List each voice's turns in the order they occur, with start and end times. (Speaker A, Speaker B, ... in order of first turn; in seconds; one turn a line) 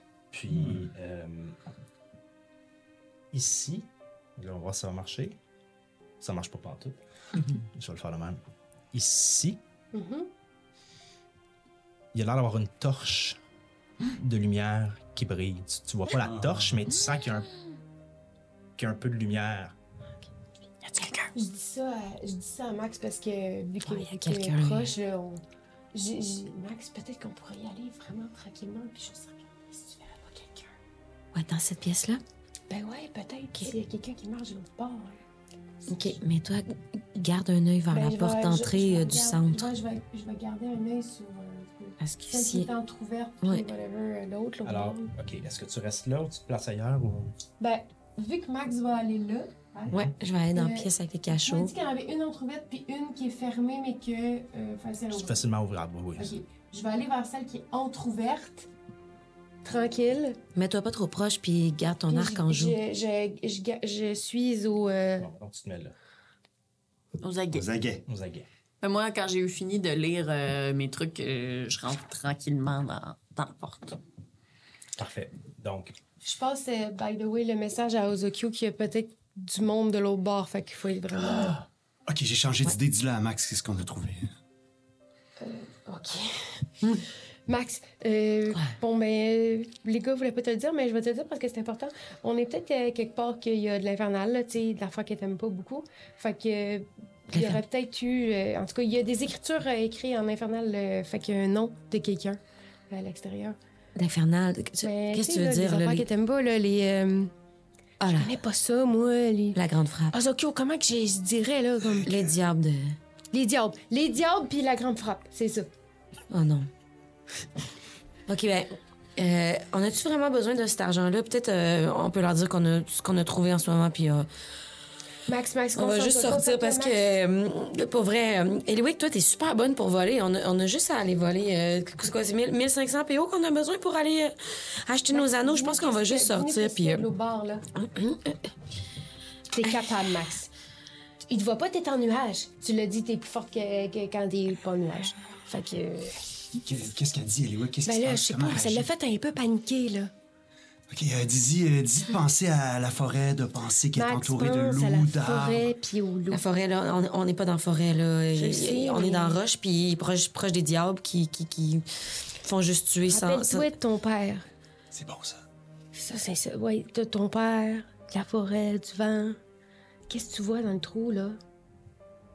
Speaker A: 0.3-1.6
Speaker A: 3.3-5.4
Speaker A: 6.2-8.4
Speaker A: 8.9-9.6
Speaker B: 9.9-10.3
Speaker A: 12.1-13.4
Speaker A: 14.1-17.5
Speaker C: 16.2-16.8
Speaker A: 18.8-19.8
Speaker D: 20.8-21.3
Speaker B: 21.3-25.4
Speaker E: 23.8-24.9
Speaker B: 25.9-30.7
Speaker E: 31.3-32.2
Speaker B: 32.7-35.2
Speaker E: 35.9-39.7
Speaker B: 37.9-45.1
Speaker E: 42.0-42.7
Speaker A: 44.6-47.3
Speaker B: 47.6-55.4
Speaker E: 49.9-51.7
Speaker A: 55.1-56.3
Speaker B: 56.2-58.7
Speaker B: 59.6-60.4
Speaker E: 60.5-62.8
Speaker B: 62.1-65.3
Speaker A: 65.2-66.0
Speaker D: 67.2-67.7
Speaker C: 67.5-68.0
Speaker A: 68.1-68.5
Speaker D: 68.8-74.0
Speaker A: 75.0-76.0
Speaker B: 76.2-81.6
Speaker C: 82.1-84.3
Speaker B: 85.4-86.6
Speaker B: 87.5-103.6
Speaker E: 97.3-97.6
Speaker E: 104.0-106.1
Speaker B: 104.8-107.3
Speaker E: 108.0-108.3
Speaker B: 108.1-109.6
Speaker E: 109.5-110.2
Speaker B: 110.1-112.1
Speaker E: 112.0-113.0
Speaker B: 113.3-115.7
Speaker E: 116.3-116.7
Speaker E: 118.3-124.3
Speaker B: 125.3-127.2
Speaker E: 125.7-137.1
Speaker B: 135.1-137.6
Speaker E: 137.8-138.5
Speaker B: 139.5-140.5
Speaker B: 141.3-146.2
Speaker C: 146.5-148.9
Speaker B: 147.8-150.1
Speaker C: 150.9-155.7
Speaker B: 153.9-156.4
Speaker E: 156.3-161.8
Speaker B: 158.3-159.4
Speaker E: 162.4-163.7
Speaker B: 163.1-164.4
Speaker C: 164.9-165.4
Speaker B: 165.9-169.4
Speaker B: 170.1-171.4